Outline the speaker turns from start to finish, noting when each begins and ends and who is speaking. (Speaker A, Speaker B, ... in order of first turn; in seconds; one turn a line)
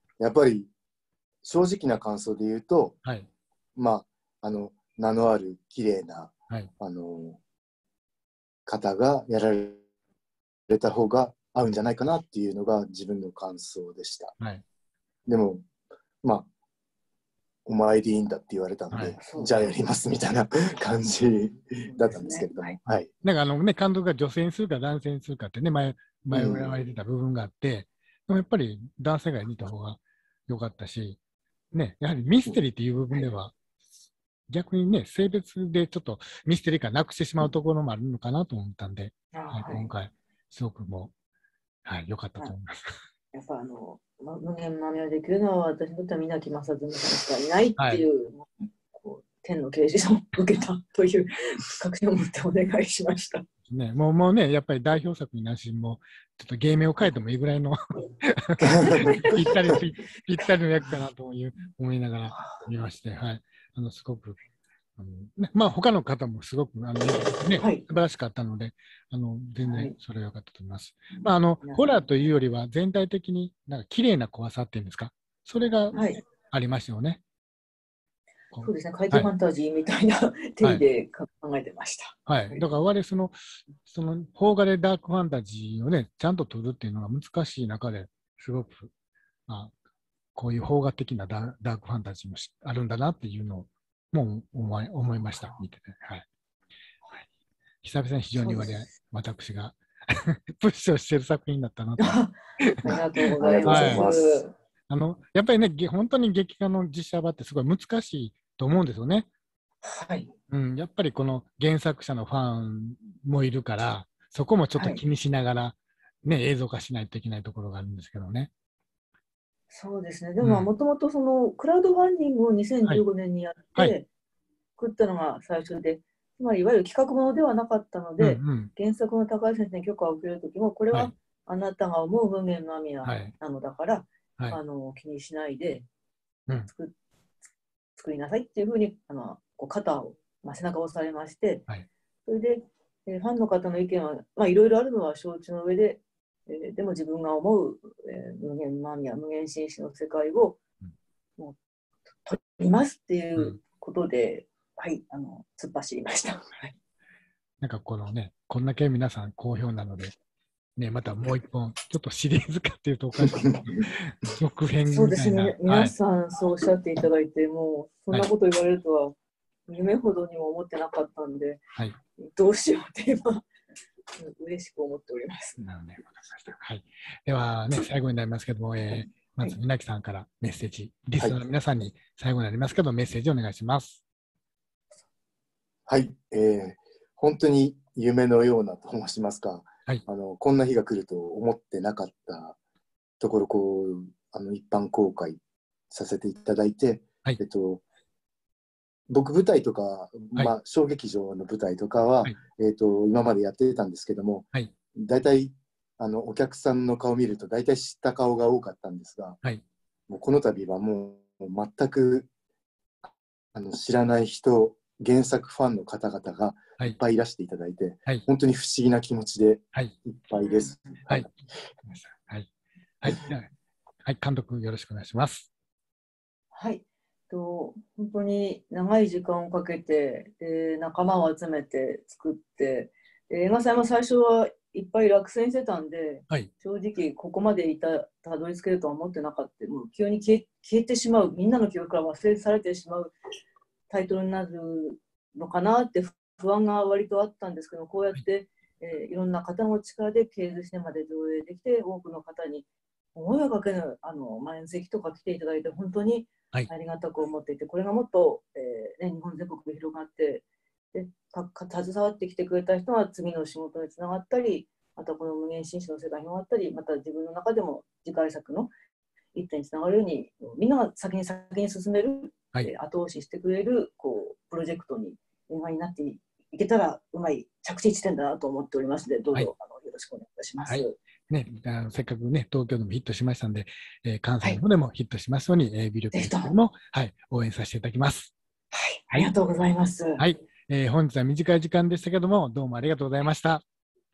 Speaker A: 0.2-0.7
Speaker A: 1.4-3.0
Speaker A: 3.8-7.4
Speaker A: 8.7-9.8
Speaker A: 10.7-14.3
Speaker B: 14.4-14.6
Speaker A: 15.3-15.6
Speaker A: 17.6-23.1
Speaker B: 18.9-19.1
Speaker C: 19.2-19.7
Speaker C: 21.8-22.8
Speaker B: 23.2-31.2
Speaker A: 26.3-26.7
Speaker B: 31.7-33.5
Speaker B: 34.5-41.1
Speaker C: 39.3-39.9
Speaker B: 41.9-42.9
Speaker C: 43.3-53.5
Speaker B: 47.8-48.1
Speaker B: 53.7-64.4
Speaker C: 62.3-62.6
Speaker B: 65.0-77.2
Speaker C: 67.6-67.8
Speaker C: 69.6-69.9
Speaker C: 71.1-72.0
Speaker C: 75.9-76.2
Speaker B: 78.5-79.3
Speaker C: 78.6-82.6
Speaker B: 82.3-88.9
Speaker B: 89.5-89.7
Speaker B: 90.3-96.2
Speaker B: 97.8-104.1
Speaker C: 98.4-98.9
Speaker C: 102.0-104.5
Speaker A: 102.9-104.4
Speaker B: 104.9-109.3
Speaker C: 109.8-110.3
Speaker B: 110.5-118.5
Speaker C: 114.8-115.0
Speaker C: 119.7-124.1
Speaker B: 120.4-120.7
Speaker C: 124.8-135.9
Speaker B: 128.2-128.7
Speaker B: 133.1-133.3
Speaker C: 136.6-136.9
Speaker C: 138.0-141.7
Speaker C: 142.3-150.6
Speaker C: 152.2-156.8
Speaker B: 157.6-160.1
Speaker B: 160.8-165.9
Speaker C: 164.9-169.2
Speaker C: 169.7-171.6
Speaker C: 172.2-173.4
Speaker C: 174.2-175.6
Speaker B: 175.6-184.0
Speaker C: 178.9-179.6
Speaker A: 185.9-192.6
Speaker A: 193.2-195.4
Speaker A: 195.9-197.8
Speaker A: 199.1-209.4
Speaker A: 210.1-212.3
Speaker A: 213.5-221.3
Speaker C: 220.4-221.0
Speaker B: 221.9-222.5
Speaker B: 223.0-223.5
Speaker B: 224.0-225.5
Speaker C: 226.5-243.1
Speaker C: 243.9-268.7
Speaker C: 269.3-280.9
Speaker B: 280.7-288.3
Speaker C: 286.1-286.5
Speaker C: 288.7-290.2
Speaker B: 290.2-293.6